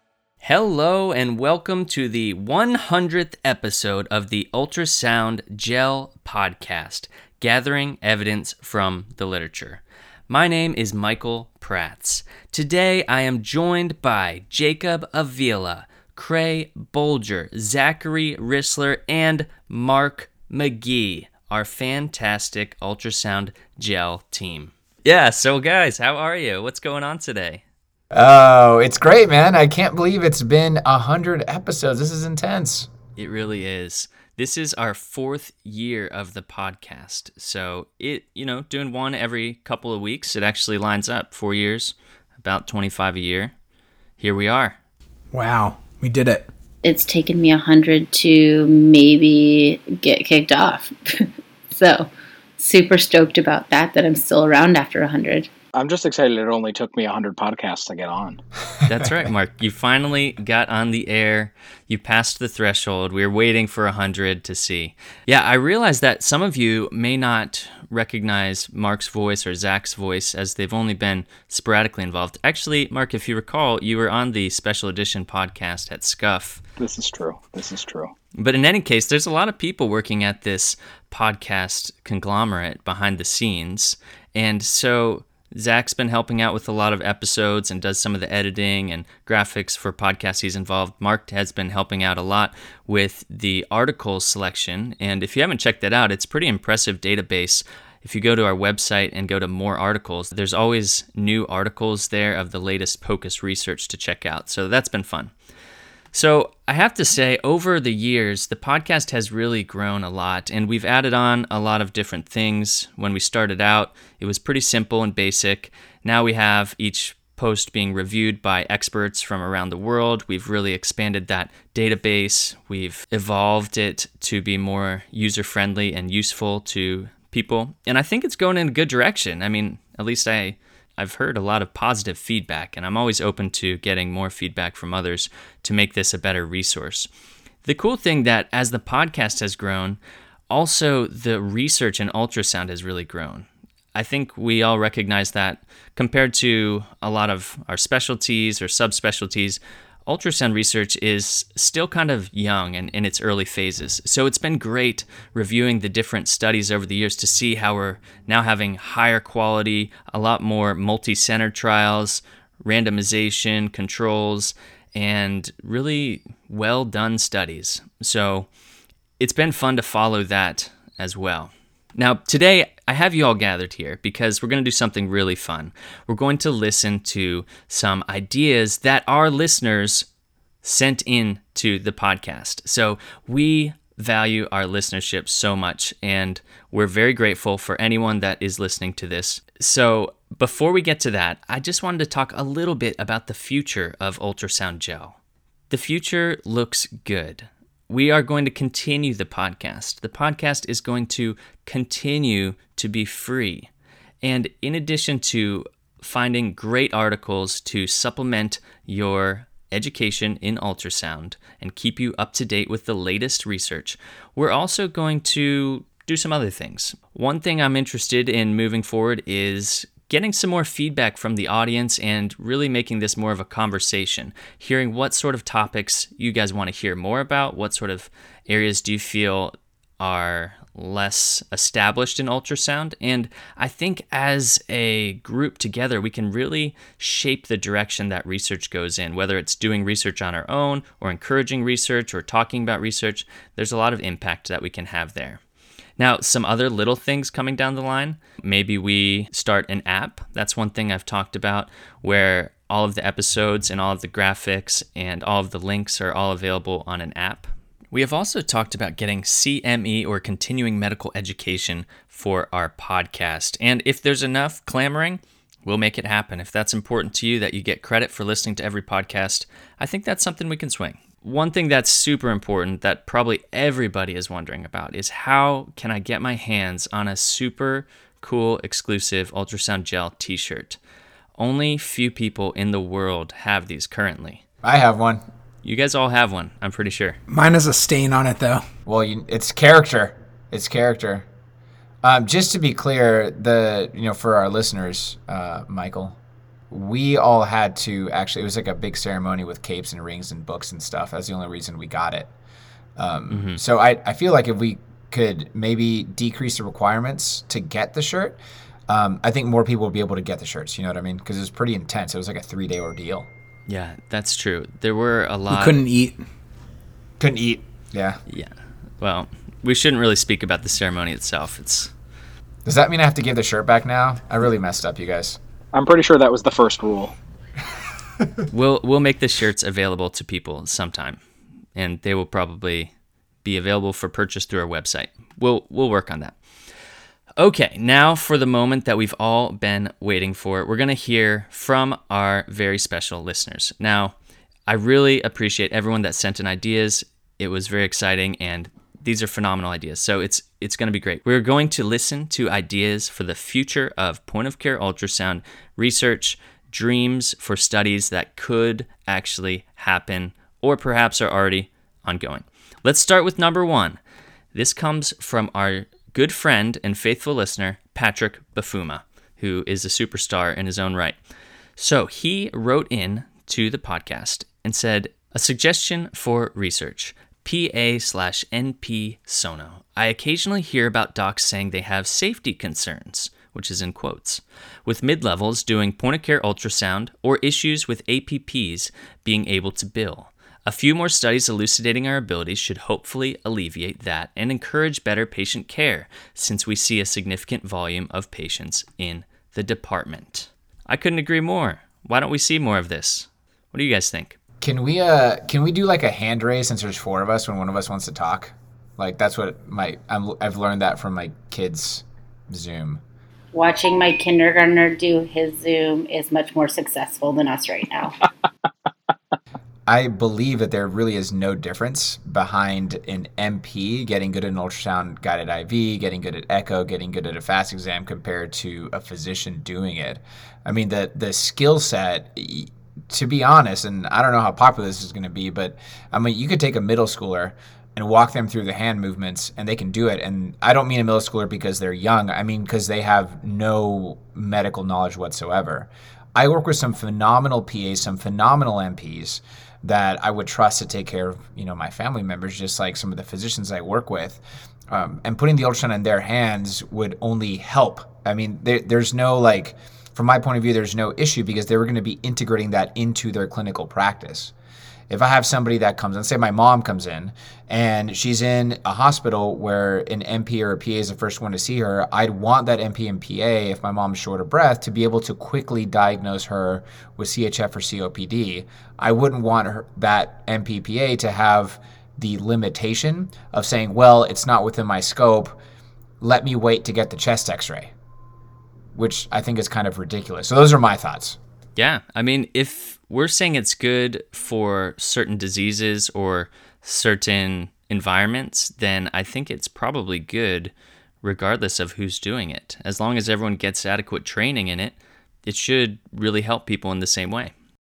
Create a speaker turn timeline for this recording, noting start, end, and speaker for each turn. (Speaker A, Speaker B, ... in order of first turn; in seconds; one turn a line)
Speaker A: 0.4-27.6
Speaker B: 28.1-32.9
Speaker A: 33.1-43.5
Speaker A: 44.2-44.8
Speaker C: 45.3-46.5
Speaker D: 46.8-55.5
Speaker E: 55.7-58.4
Speaker A: 58.8-76.6
Speaker E: 76.8-78.1
Speaker A: 78.4-105.3
Speaker A: 106.1-137.1
Speaker A: 137.6-168.5
Speaker A: 169.2-180.1
Speaker A: 180.6-195.2
Speaker A: 195.7-203.7
Speaker A: 204.2-245.4
Speaker A: 246.0-280.8
Speaker A: 281.4-284.4
Speaker B: 284.6-285.2
Speaker A: 285.6-287.2
Speaker C: 287.3-288.6
Speaker B: 288.9-291.3
Speaker B: 292.0-296.2
Speaker B: 296.7-302.3
Speaker B: 303.0-313.3
Speaker A: 303.3-303.6
Speaker A: 313.7-315.8
Speaker C: 315.5-316.2
Speaker B: 317.2-318.2
Speaker A: 318.3-321.9
Speaker B: 322.6-325.4
Speaker E: 325.7-327.1
Speaker A: 328.5-331.2
Speaker A: 331.8-332.9
Speaker A: 333.4-336.4
Speaker A: 337.4-344.1
Speaker A: 344.7-364.0
Speaker A: 364.5-371.2
Speaker A: 371.8-404.4
Speaker B: 404.6-413.0
Speaker D: 413.5-418.2
Speaker B: 419.9-464.5
Speaker B: 465.1-485.6
Speaker B: 486.2-487.9
Speaker B: 488.9-491.4
Speaker A: 491.8-507.5